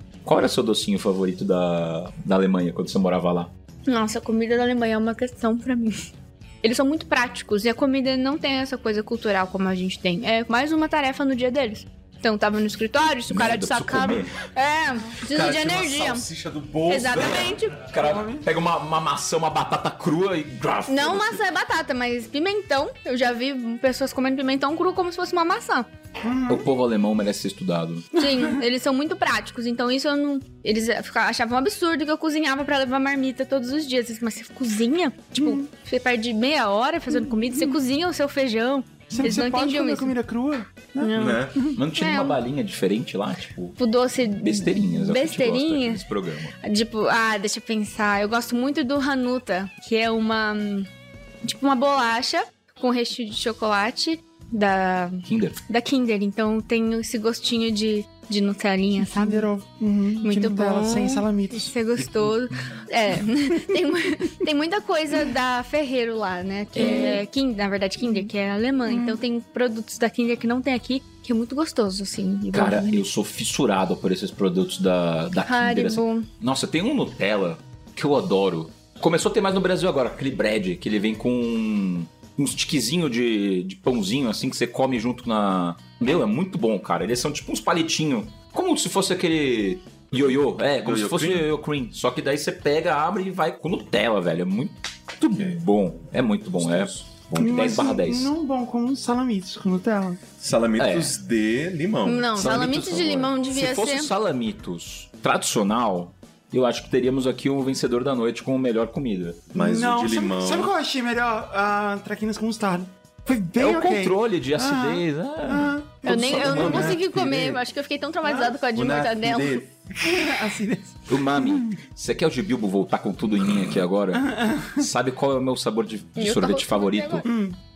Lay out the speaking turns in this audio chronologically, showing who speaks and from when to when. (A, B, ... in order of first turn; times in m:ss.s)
0:00.2-0:03.5 A
0:03.9-0:06.0 B
0:06.6-0:16.3 B
0:13.3-0:14.3 A
0:15.2-0:17.4 C
0:16.9-0:17.9 B
0:17.1-0:21.4 A
0:18.0-0:18.4 D
0:20.9-0:25.9 B
0:26.2-0:26.6 D
0:26.5-0:28.2 A
0:28.1-0:40.2 B
0:35.4-0:35.6 D
0:37.1-0:37.7 D
0:39.1-0:41.8 D
0:41.0-0:42.4 B
0:41.2-0:41.6 C
0:41.7-0:43.8 A
0:43.8-0:46.0 B
0:44.4-0:46.6 A
0:46.6-0:50.9 B
0:51.4-0:59.5 B
0:55.2-0:55.6 A
0:59.0-1:01.7 D
1:00.2-1:13.0 B
1:06.8-1:07.2 A
1:06.8-1:07.2 D
1:08.9-1:09.2 D
1:12.5-1:38.3 A
1:15.5-1:16.3 B
1:30.8-1:31.5 C
1:35.3-1:35.6 C
1:36.5-1:37.8 C
1:37.4-1:40.2 D
1:40.4-1:42.7 C
1:40.8-1:41.1 A
1:42.0-1:44.1 B
1:42.4-1:49.4 A
1:49.5-1:50.7 C
1:49.6-1:57.0 D
1:53.6-1:56.9 A
1:56.0-1:59.6 B
1:56.1-1:57.6 C
1:58.2-1:58.6 D
1:58.7-1:59.7 C
2:00.0-2:01.7 D
2:01.1-2:07.3 A
2:04.2-2:04.9 D
2:06.2-2:07.3 B
2:07.3-2:07.6 D